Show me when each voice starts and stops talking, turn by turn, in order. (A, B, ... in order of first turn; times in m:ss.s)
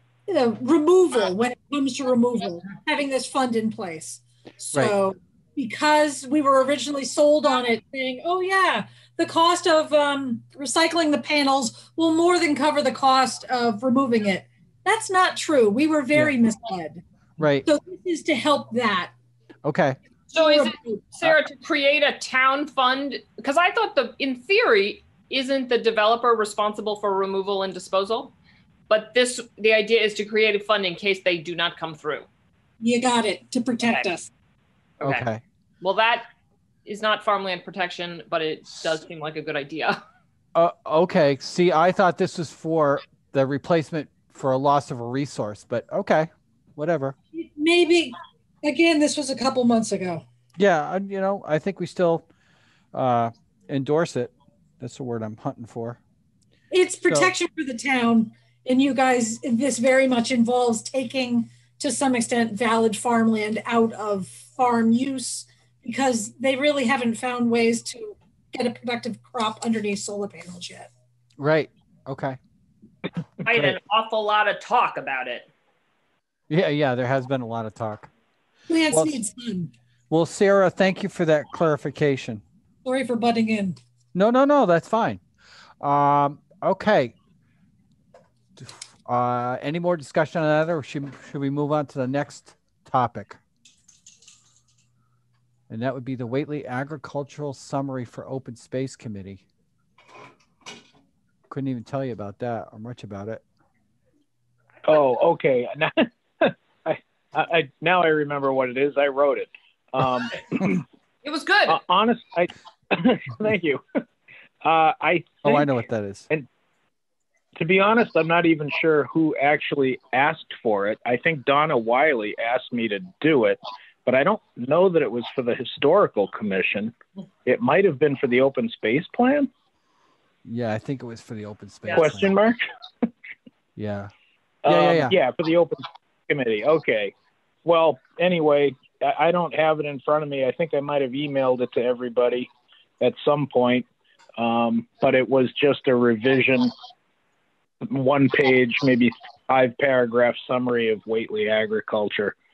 0:00.3-0:17.0 A
0:17.4-0:17.7 B
0:17.6-0:19.1 A
0:19.6-0:20.0 B
0:20.3-0:28.3 C
0:20.4-0:21.0 A
0:28.9-0:32.3 C
0:32.8-0:34.3 A
0:35.0-0:35.4 B
0:35.8-0:36.3 C
0:36.8-0:40.0 C
0:40.6-0:47.2 B
0:47.3-0:50.2 A
0:50.6-0:52.3 B
0:52.9-0:56.0 B
0:56.7-1:10.9 A
0:57.1-0:57.3 B
1:11.4-1:12.4 B
1:13.4-1:15.5 C
1:13.5-1:13.8 B
1:16.5-1:18.1 B
1:18.7-1:19.7 A
1:18.9-1:19.2 B
1:20.1-1:22.4 B
1:22.8-1:23.8 A
1:24.1-1:25.2 B
1:25.8-1:27.1 B
1:28.6-1:33.4 B
1:35.7-1:39.4 B
1:41.5-1:43.4 B
1:44.9-1:50.8 D
1:51.2-1:51.8 C
1:51.7-1:54.0 D
1:54.6-1:55.7 D
1:55.4-1:56.3 B
1:57.6-2:07.0 D
2:07.5-2:09.5 D
2:10.4-2:12.3 B
2:11.9-2:12.6 D
2:13.8-2:14.1 B
2:14.6-2:17.1 D
2:14.7-2:15.2 B
2:17.6-2:23.9 D
2:24.4-2:26.7 D
2:27.8-2:32.4 D